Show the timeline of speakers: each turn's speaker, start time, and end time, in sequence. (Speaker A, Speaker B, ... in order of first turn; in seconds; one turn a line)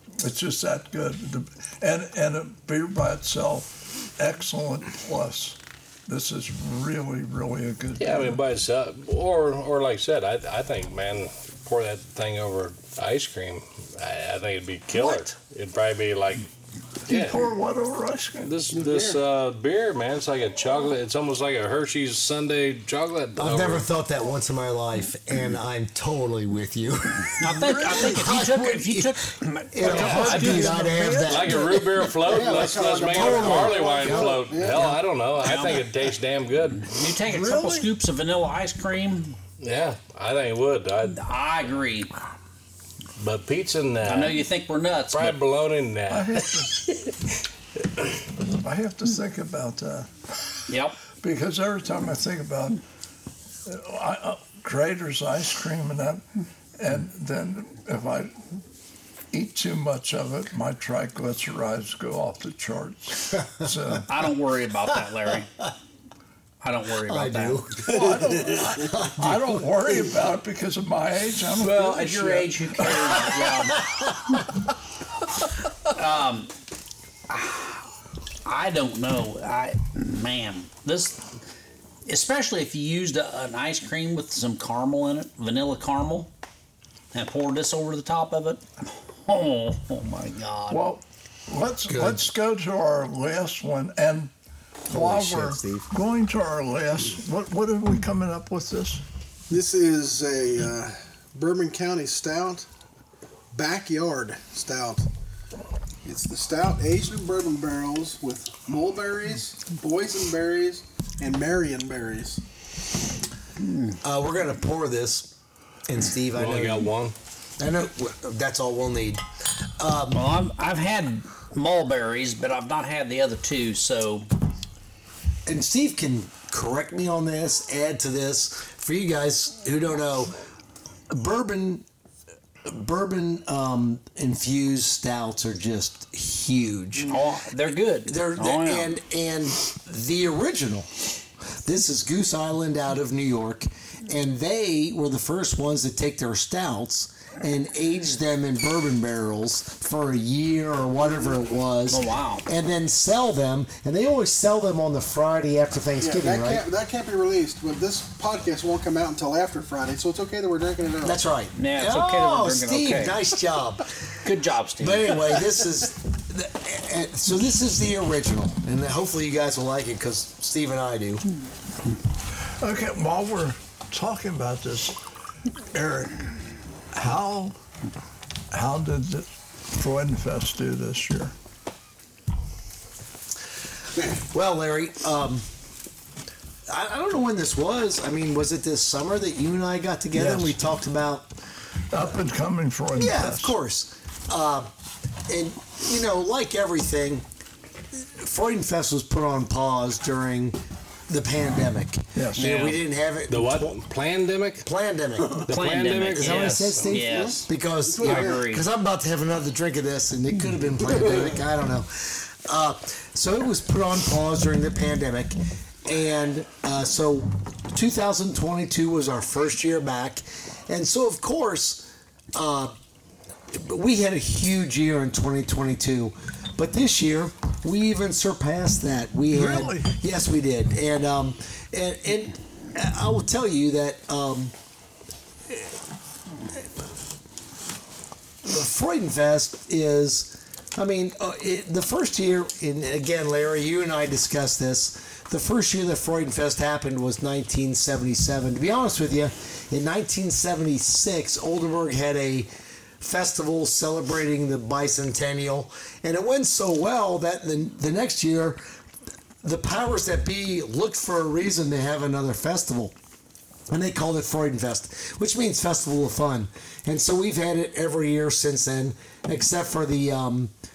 Speaker A: 0.2-8.4
Speaker B: 8.0-16.5
Speaker C: 14.9-15.2
Speaker B: 17.1-17.4
Speaker A: 17.1-18.6
Speaker B: 18.4-23.9
Speaker D: 18.7-19.2
Speaker C: 23.4-34.5
Speaker E: 27.4-31.3
Speaker A: 27.5-28.3
Speaker B: 29.8-36.9
Speaker A: 30.0-31.6
Speaker D: 32.2-34.9
Speaker E: 35.4-35.9
Speaker E: 36.8-39.4
Speaker A: 37.2-37.9
Speaker B: 39.6-41.2
Speaker E: 41.1-42.1
Speaker B: 43.2-44.4
Speaker E: 44.0-45.4
Speaker B: 45.1-46.5
Speaker A: 46.1-46.9
Speaker A: 48.4-50.1
Speaker E: 50.7-51.0
Speaker A: 51.2-52.8
Speaker A: 53.6-58.4
Speaker A: 59.3-64.3
Speaker E: 64.1-65.5
Speaker E: 66.6-67.7
Speaker C: 67.0-69.6
Speaker A: 67.8-73.5
Speaker E: 71.6-73.9
Speaker C: 73.9-74.3
Speaker E: 75.9-76.5
Speaker E: 77.3-77.8
Speaker E: 78.4-81.2
Speaker E: 82.0-86.3
Speaker E: 87.1-88.6
Speaker E: 89.2-90.9
Speaker A: 90.7-94.3
Speaker C: 91.9-92.3
Speaker A: 94.9-99.0
Speaker C: 94.9-95.9
Speaker D: 99.5-102.7
Speaker D: 103.5-105.1
Speaker D: 106.0-112.4
Speaker E: 113.6-113.9
Speaker C: 114.0-115.3
Speaker C: 115.8-116.9
Speaker B: 116.3-117.1
Speaker C: 117.6-120.2
Speaker E: 120.1-124.3
Speaker C: 125.5-130.3
Speaker C: 131.1-131.8
Speaker C: 132.6-137.2
Speaker E: 137.1-138.9
Speaker C: 138.0-140.9
Speaker C: 141.6-156.6
Speaker E: 151.9-152.4
Speaker D: 156.0-161.2
Speaker C: 161.0-163.9
Speaker E: 161.6-163.2
Speaker E: 164.2-165.3
Speaker C: 164.8-171.2
Speaker A: 172.6-175.0
Speaker A: 175.7-176.3
Speaker A: 176.9-177.5
Speaker A: 178.5-181.3
Speaker C: 184.0-185.5
Speaker C: 186.7-191.3
Speaker A: 190.1-190.6
Speaker A: 191.9-193.5
Speaker C: 192.9-194.7
Speaker C: 195.3-197.2
Speaker C: 197.9-203.8
Speaker A: 202.1-202.5
Speaker E: 202.4-202.8
Speaker B: 203.3-204.7
Speaker C: 204.6-205.5
Speaker B: 205.4-206.9
Speaker E: 205.4-207.5
Speaker C: 206.1-222.7
Speaker D: 206.9-208.4
Speaker E: 208.0-208.6
Speaker C: 223.5-234.5
Speaker A: 229.3-229.9
Speaker C: 235.5-235.7
Speaker C: 238.4-252.5
Speaker C: 253.0-258.6
Speaker C: 259.4-262.9
Speaker C: 263.7-270.5